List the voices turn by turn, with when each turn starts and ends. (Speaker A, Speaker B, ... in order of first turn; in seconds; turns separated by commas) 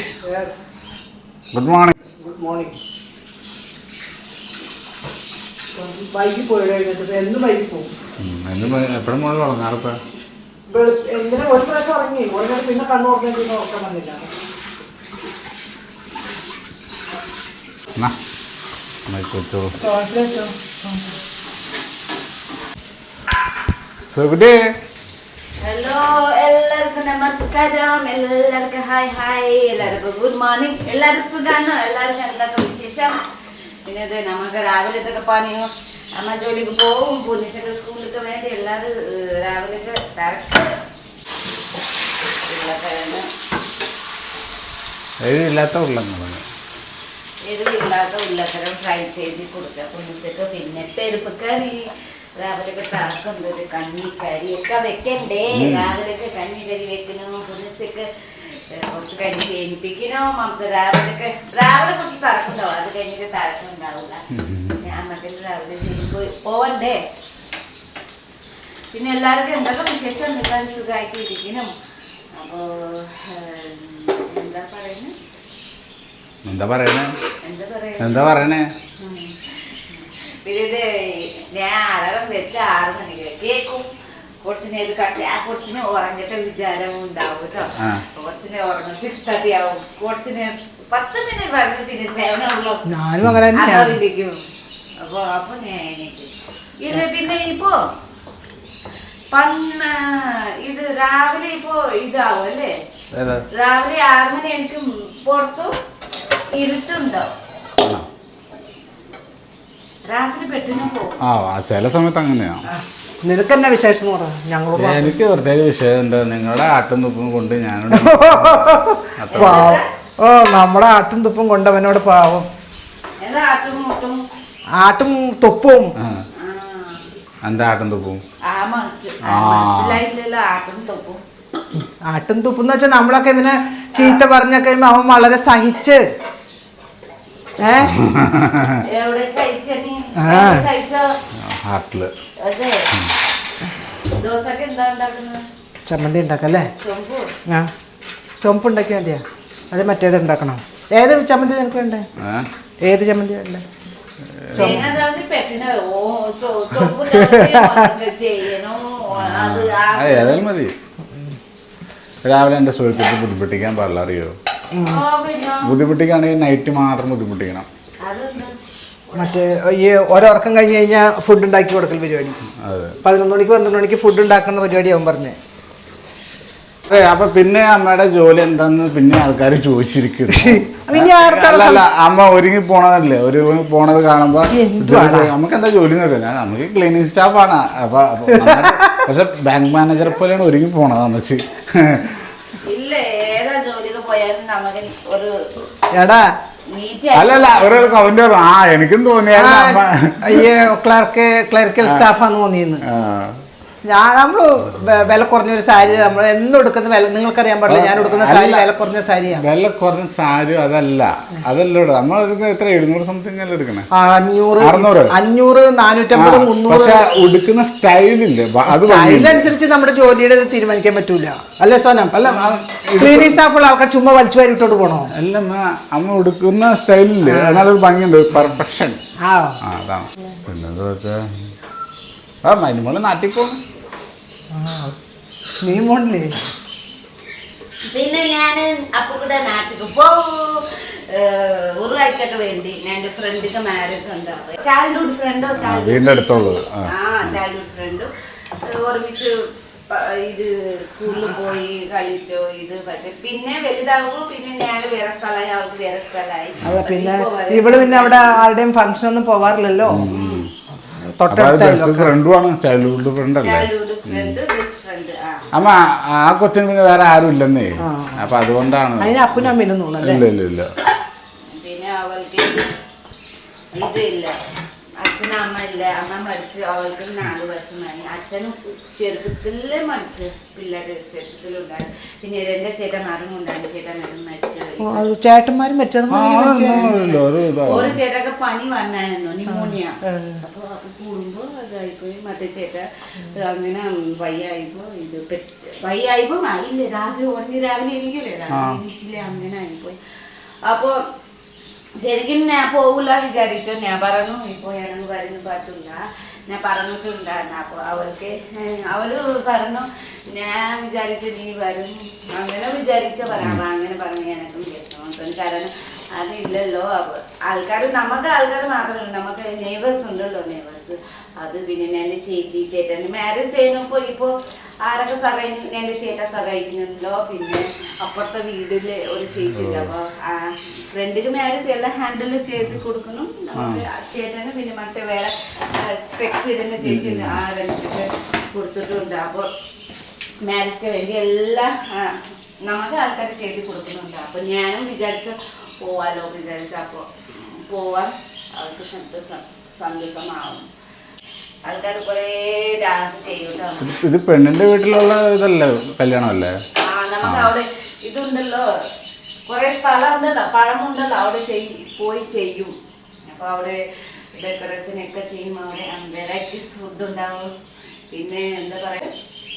Speaker A: 0.2-0.6, Speaker B: 1.5-1.9, Speaker A: 2.2-2.8, Speaker A: 5.7-7.9, Speaker B: 8.2-9.9, Speaker A: 10.7-14.3, Speaker B: 19.1-19.7, Speaker A: 19.8-21.1, Speaker B: 24.1-24.6, Speaker C: 25.6-33.2, Speaker C: 33.9-40.7, Speaker C: 42.5-43.3, Speaker B: 45.2-46.4, Speaker C: 47.4-51.9, Speaker C: 52.4-67.0, Speaker B: 55.5-55.9, Speaker B: 64.3-64.8, Speaker C: 68.9-71.7, Speaker C: 72.3-75.1, Speaker B: 76.5-77.1, Speaker C: 77.4-78.4, Speaker B: 78.0-78.7, Speaker C: 79.0-83.9, Speaker C: 84.4-92.8, Speaker A: 92.9-94.0, Speaker C: 93.5-94.3, Speaker C: 95.0-97.8, Speaker C: 99.3-102.7, Speaker B: 103.1-103.5, Speaker C: 103.5-105.7, Speaker C: 106.5-107.3, Speaker C: 110.1-111.2, Speaker B: 111.2-112.6, Speaker A: 113.2-115.2, Speaker B: 114.8-119.7, Speaker A: 117.9-122.5, Speaker C: 119.3-119.8, Speaker C: 123.2-124.2, Speaker A: 124.8-125.9, Speaker B: 126.0-126.2, Speaker C: 126.3-127.0, Speaker B: 127.4-128.2, Speaker C: 128.4-131.2, Speaker B: 129.2-130.0, Speaker A: 131.8-136.0, Speaker C: 134.0-134.2, Speaker A: 137.6-137.9, Speaker B: 137.8-138.8, Speaker C: 138.9-141.2, Speaker A: 140.2-140.7, Speaker B: 141.4-142.1, Speaker C: 142.4-142.9, Speaker C: 144.1-145.4, Speaker A: 145.8-146.7, Speaker C: 146.8-147.3, Speaker A: 148.4-152.1, Speaker B: 152.2-152.5, Speaker A: 152.8-153.6, Speaker B: 154.4-155.0, Speaker A: 154.5-154.9, Speaker C: 154.5-160.4, Speaker A: 157.2-157.8, Speaker B: 159.2-160.7, Speaker B: 162.2-164.3, Speaker A: 164.7-165.0, Speaker C: 164.8-165.8, Speaker B: 165.6-167.7, Speaker C: 168.0-168.6, Speaker C: 169.1-169.3, Speaker A: 169.2-172.4, Speaker B: 172.6-173.0, Speaker A: 173.0-175.3, Speaker B: 176.9-192.2, Speaker A: 180.3-181.9, Speaker A: 184.5-185.3, Speaker A: 188.3-189.1, Speaker C: 192.6-195.4, Speaker A: 195.9-196.3, Speaker C: 196.7-197.8, Speaker B: 197.1-200.5, Speaker A: 199.3-202.8, Speaker B: 201.8-202.1, Speaker B: 202.8-203.4, Speaker A: 203.8-209.4, Speaker B: 207.7-208.7, Speaker B: 209.3-213.9, Speaker A: 213.9-217.1, Speaker B: 214.6-215.2, Speaker B: 216.1-219.5, Speaker A: 218.7-225.1, Speaker B: 222.1-223.4, Speaker B: 225.1-229.0, Speaker A: 227.2-227.7, Speaker A: 229.2-229.6, Speaker B: 229.6-231.2, Speaker B: 232.4-233.6, Speaker A: 234.5-234.9, Speaker A: 235.6-236.3, Speaker C: 237.9-246.1, Speaker B: 245.6-247.4, Speaker C: 246.9-248.1, Speaker C: 248.6-249.4, Speaker C: 249.9-258.4, Speaker A: 256.6-260.1, Speaker B: 259.9-260.5, Speaker C: 260.1-260.5, Speaker A: 261.0-262.1, Speaker B: 261.3-264.4, Speaker C: 263.4-265.5, Speaker B: 265.5-270.7, Speaker A: 267.8-268.3, Speaker A: 269.0-270.2, Speaker C: 271.5-272.7, Speaker C: 273.7-274.4, Speaker C: 275.0-285.0, Speaker A: 284.8-287.0, Speaker B: 286.1-288.0, Speaker C: 286.7-300.0, Speaker A: 289.5-290.4, Speaker B: 298.5-298.8, Speaker C: 300.6-301.0, Speaker C: 302.0-324.3, Speaker B: 313.3-313.6, Speaker C: 324.8-339.5, Speaker B: 329.5-329.9, Speaker B: 333.6-333.8, Speaker B: 336.8-337.4, Speaker C: 340.4-350.6, Speaker C: 351.6-353.9, Speaker B: 353.8-356.6, Speaker C: 356.8-358.7, Speaker B: 357.2-357.5, Speaker C: 359.5-362.7, Speaker C: 363.3-363.8, Speaker C: 364.4-367.5, Speaker C: 368.1-369.1